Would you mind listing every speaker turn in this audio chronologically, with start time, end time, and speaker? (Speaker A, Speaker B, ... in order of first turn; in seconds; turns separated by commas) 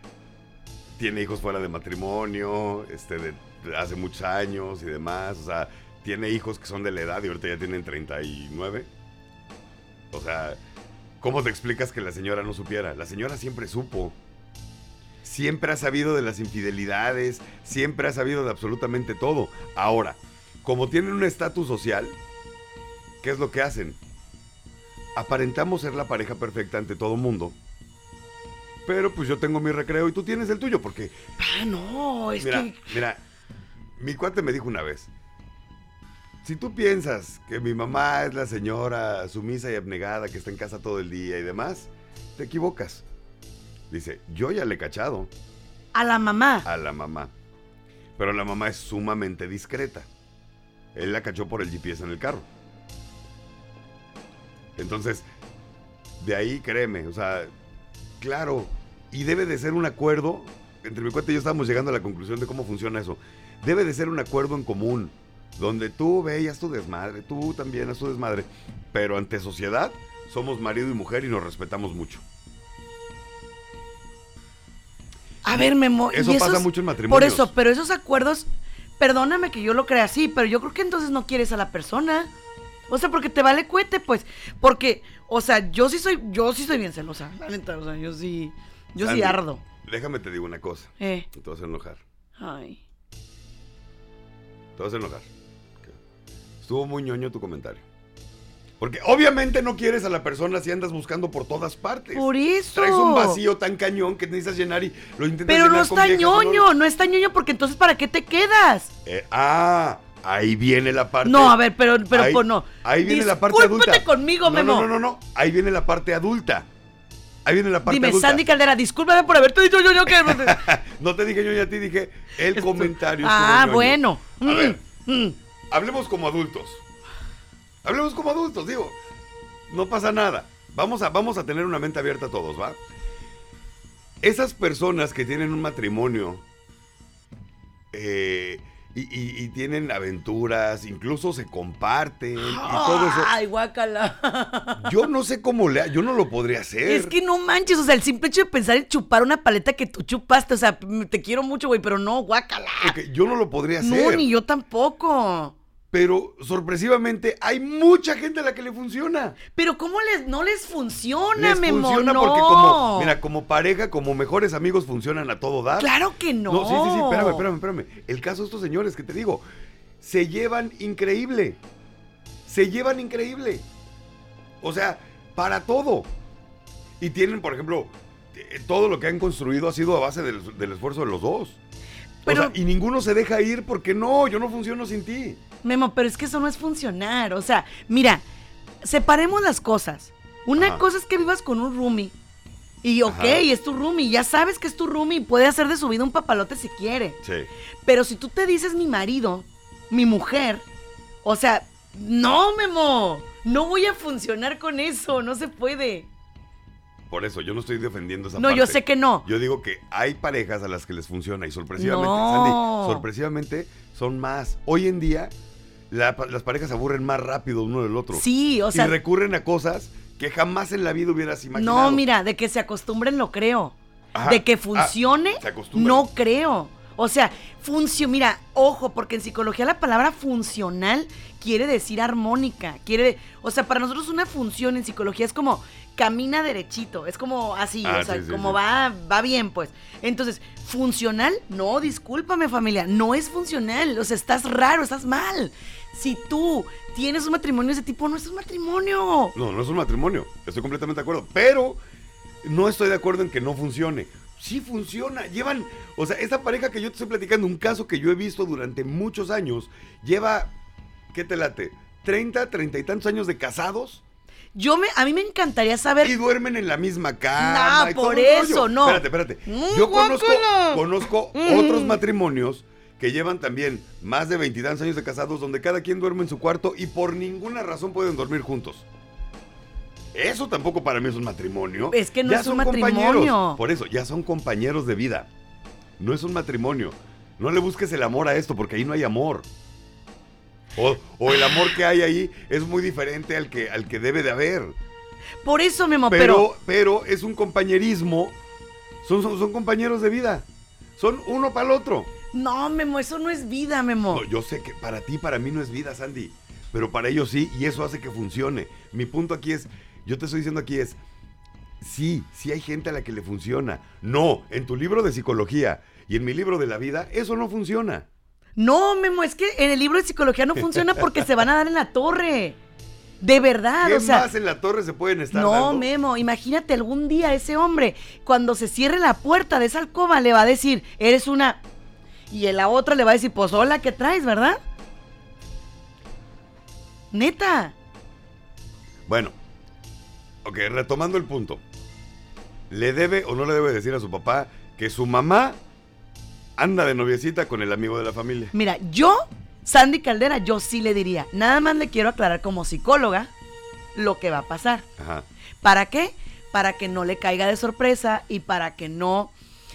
Speaker A: 1.0-8.9, Speaker A: 10.1-10.6, Speaker A: 11.2-14.2, Speaker A: 15.2-22.2, Speaker A: 23.2-24.0, Speaker A: 25.1-27.6, Speaker A: 28.9-31.2, Speaker B: 31.4-32.9, Speaker A: 32.4-33.2, Speaker A: 34.0-35.1, Speaker A: 36.4-43.0, Speaker A: 43.9-45.3, Speaker B: 45.9-46.7, Speaker A: 46.6-47.3, Speaker A: 48.2-50.1, Speaker A: 51.0-52.5, Speaker A: 54.8-55.3, Speaker A: 56.2-57.5, Speaker A: 58.2-72.2, Speaker B: 75.4-78.5, Speaker A: 75.5-77.5, Speaker B: 79.0-82.3, Speaker B: 82.9-89.6, Speaker A: 89.0-92.0, Speaker B: 91.0-91.3, Speaker B: 92.4-92.8, Speaker A: 94.8-95.3, Speaker A: 96.6-97.8, Speaker A: 98.8-106.7, Speaker B: 102.1-103.4, Speaker B: 105.5-108.9, Speaker A: 109.1-111.6, Speaker B: 111.2-114.9, Speaker A: 112.1-116.7, Speaker A: 117.5-118.4, Speaker B: 117.9-120.7, Speaker A: 120.1-124.8, Speaker B: 122.5-125.4, Speaker A: 125.7-126.8, Speaker A: 127.8-129.0, Speaker A: 129.7-132.8, Speaker A: 134.2-136.4, Speaker A: 137.9-143.3, Speaker B: 142.4-145.0, Speaker A: 144.8-147.1, Speaker B: 146.9-153.0, Speaker A: 152.8-154.3, Speaker B: 153.8-155.6, Speaker A: 155.9-159.4, Speaker B: 159.6-163.2, Speaker A: 161.4-165.9, Speaker B: 165.8-167.5, Speaker A: 166.5-169.4, Speaker A: 170.0-171.6, Speaker A: 172.5-173.7, Speaker A: 174.6-176.1, Speaker A: 177.0-181.6, Speaker B: 182.2-182.6, Speaker A: 182.3-185.4, Speaker B: 185.6-188.2, Speaker B: 188.8-192.1, Speaker A: 190.6-190.8, Speaker B: 192.8-197.2, Speaker A: 193.1-193.4, Speaker A: 197.2-197.5, Speaker B: 197.9-200.7, Speaker B: 201.2-206.1, Speaker A: 207.1-215.3, Speaker B: 208.4-209.3, Speaker B: 211.8-213.1, Speaker A: 215.9-222.0, Speaker B: 218.1-218.9, Speaker B: 221.6-249.3, Speaker A: 224.1-226.1, Speaker A: 237.8-238.6, Speaker A: 249.3-251.8, Speaker A: 252.4-260.5, Speaker A: 261.1-264.0, Speaker B: 264.6-266.1, Speaker A: 266.0-278.9, Speaker B: 267.4-272.0, Speaker A: 280.1-285.3, Speaker B: 281.9-283.6, Speaker A: 286.0-289.5, Speaker A: 290.8-294.8, Speaker B: 295.4-296.5, Speaker A: 296.1-298.4, Speaker A: 299.0-302.1, Speaker B: 302.3-304.2, Speaker A: 304.1-311.0, Speaker A: 311.8-318.1, Speaker B: 318.6-322.6, Speaker B: 323.2-324.3, Speaker A: 323.8-325.9, Speaker B: 325.3-331.6, Speaker B: 332.3-334.6, Speaker B: 337.1-337.8, Speaker A: 339.1-339.4, Speaker A: 340.4-341.6, Speaker A: 342.7-345.6, Speaker A: 346.6-348.5, Speaker B: 348.5-353.3, Speaker B: 353.9-354.9, Speaker A: 355.0-355.3, Speaker B: 355.6-359.3